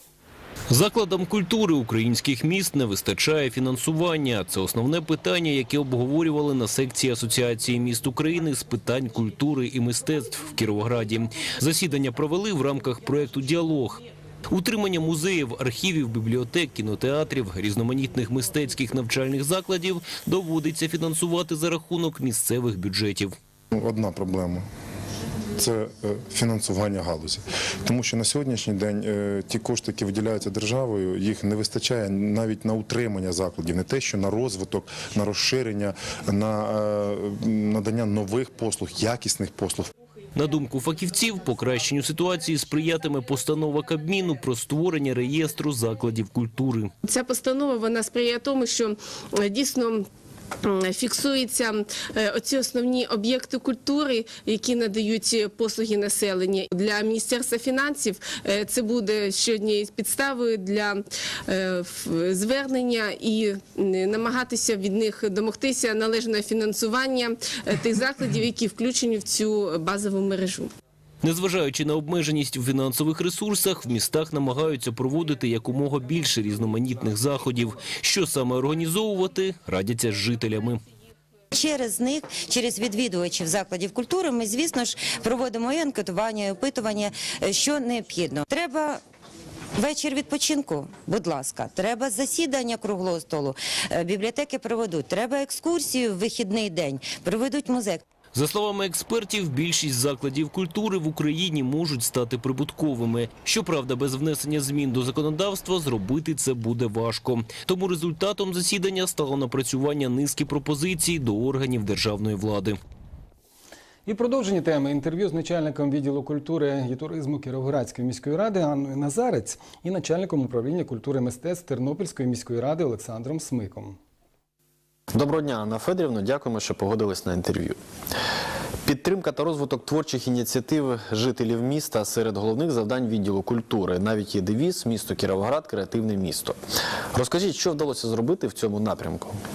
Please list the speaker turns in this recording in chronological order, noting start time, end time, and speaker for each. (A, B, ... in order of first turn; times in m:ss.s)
0:00.7-0:23.3 A
0:23.7-0:24.6 B
0:25.6-0:39.9 B
0:40.3-0:46.9 A
0:47.0-0:50.1 C
0:50.6-1:10.7 C
1:11.2-1:20.8 A
1:21.5-1:29.0 D
1:29.8-1:38.0 D
1:38.3-1:52.8 A
1:54.1-2:04.0 E
2:05.1-2:07.8 F
2:08.9-2:16.6 F
2:17.2-2:19.4 F